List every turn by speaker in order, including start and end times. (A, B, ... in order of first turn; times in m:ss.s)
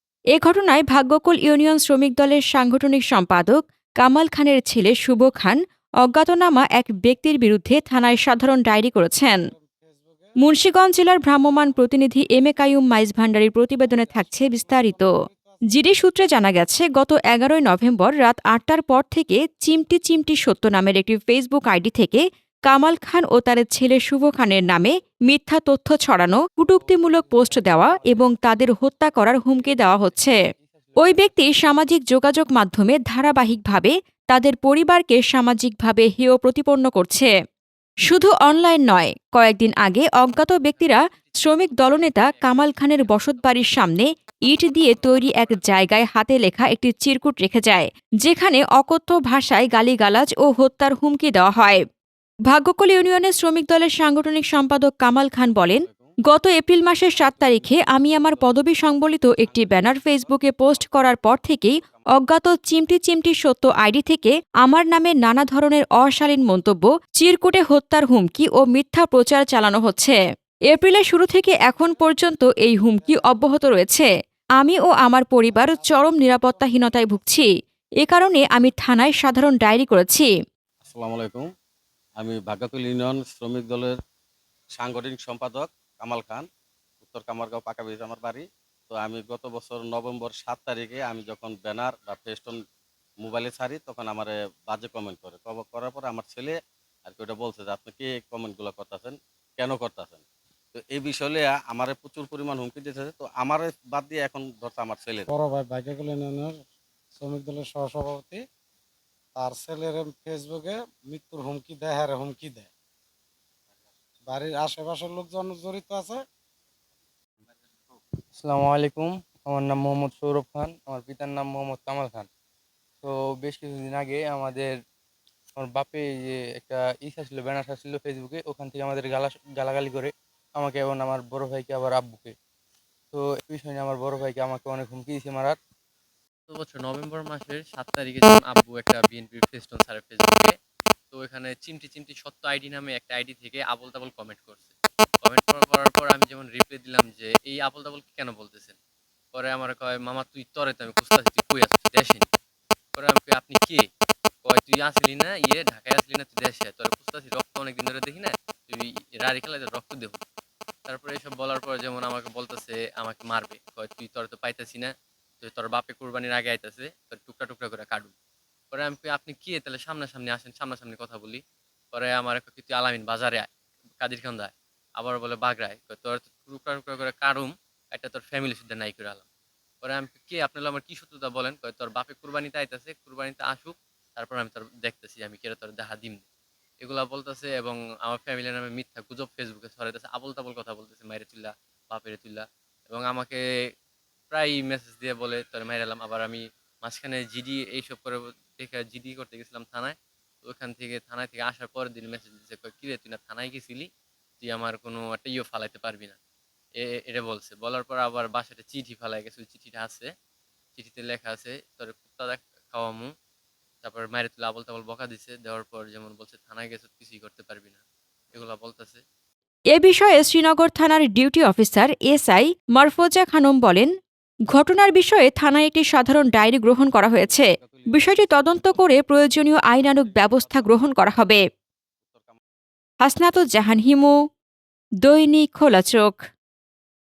0:00.3-0:09.4 A
0:09.3-0:10.4 B
0:10.4-0:15.1 A
0:11.4-0:11.8 B
0:13.7-0:15.8 B
0:15.7-0:30.4 A
0:26.6-0:28.7 C
0:29.5-0:31.3 C
0:31.0-0:37.3 A
0:38.1-0:51.8 A
0:40.5-0:45.8 D
0:52.5-1:10.2 A
0:55.6-0:56.2 E
0:57.1-1:02.1 E
1:10.7-1:14.1 A
1:11.5-1:13.4 B
1:14.6-1:17.5 A
1:15.4-1:17.2 B
1:18.0-1:20.3 A
1:20.8-1:21.4 E
1:22.2-1:24.0 E
1:24.8-1:26.5 E
1:27.0-1:32.6 E
1:33.2-1:45.3 E
1:45.3-1:46.6 B
1:47.2-1:48.4 B
1:49.4-1:52.7 B
1:54.3-1:56.2 B
1:58.3-2:02.3 C
2:03.0-2:04.7 C
2:05.6-2:12.3 C
2:13.1-2:15.6 C
2:16.5-2:20.5 D
2:21.1-2:24.7 D
2:25.2-2:28.8 D
2:29.3-2:32.3 D
2:32.9-2:33.8 D
2:34.4-2:40.2 D
2:40.8-2:48.1 D
2:48.7-2:51.4 D
2:51.9-2:53.5 D
2:54.0-2:59.2 D
2:59.8-3:06.2 D
3:06.8-3:13.4 D
3:14.3-3:23.9 D
3:24.4-3:26.2 D
3:26.8-3:30.1 D
3:30.8-3:33.1 D
3:33.8-3:37.8 D
3:38.3-3:39.0 D
3:39.7-3:43.9 A
3:44.5-3:51.4 A
3:47.1-3:49.0 E
3:49.8-3:50.9 E
3:52.0-3:52.4 E
3:53.0-3:54.1 A
3:55.0-3:56.2 A